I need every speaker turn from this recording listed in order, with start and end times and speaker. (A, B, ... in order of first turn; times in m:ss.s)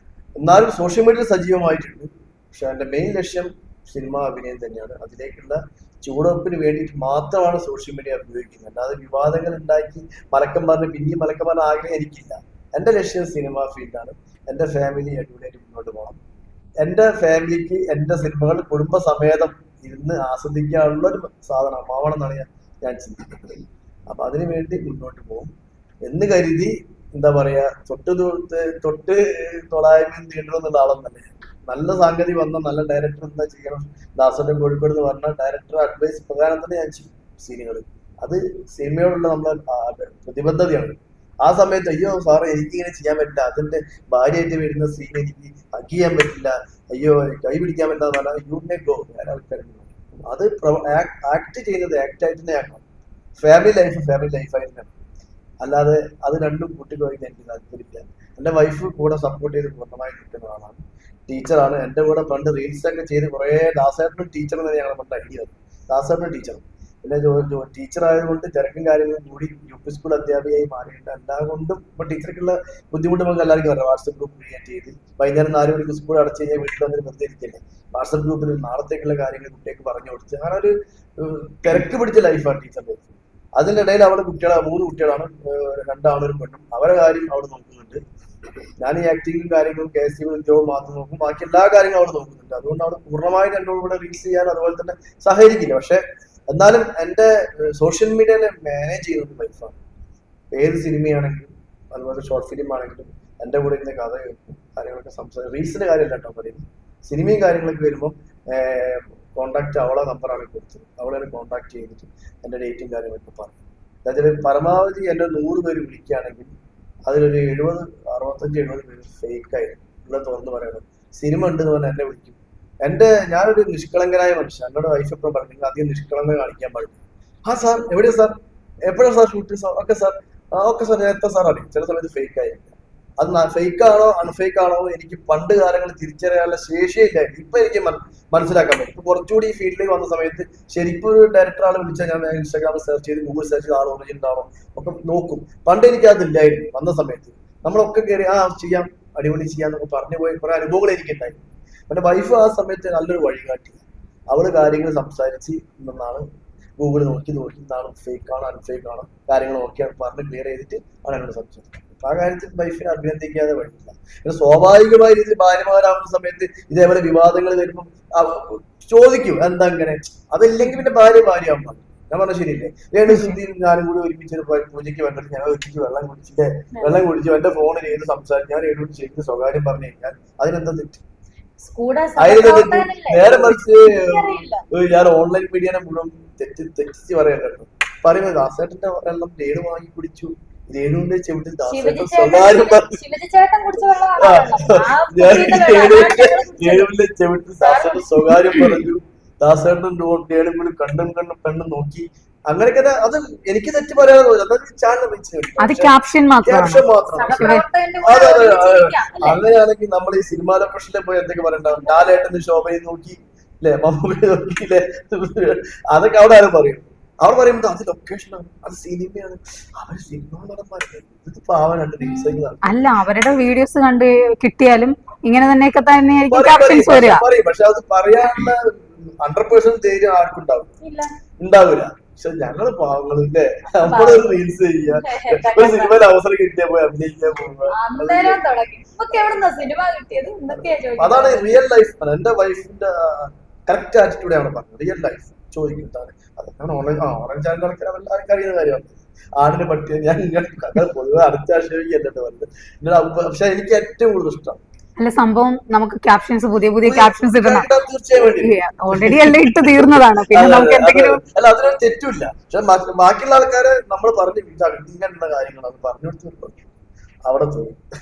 0:00.4-0:16.2 A
0:16.8-0:25.5 A
0:26.0-0:52.8 A
0:53.4-0:54.9 A
0:55.6-1:28.0 A
1:28.8-1:39.8 A
1:40.5-1:56.5 A
1:57.1-2:08.3 A
2:08.9-2:36.2 A
2:36.8-3:01.0 A
2:53.1-2:53.4 B
2:56.7-2:57.0 C
3:01.6-3:04.6 C
3:02.2-3:13.0 A
3:11.6-3:16.9 C
3:14.2-3:25.9 A
3:17.6-3:18.0 C
3:25.6-3:27.6 B
3:26.4-3:42.8 A
3:27.1-3:29.4 C
3:31.6-3:32.2 C
3:42.0-3:42.4 C
3:42.7-3:47.2 B
3:46.3-3:50.7 A
3:50.8-3:51.1 C
3:51.4-3:58.4 A
3:53.8-3:56.0 C
3:57.7-4:01.6 C
3:59.1-3:59.4 A
4:00.5-4:14.6 A
4:15.0-4:17.7 B
4:16.8-4:26.6 A
4:18.2-4:21.2 B
4:27.2-4:27.8 A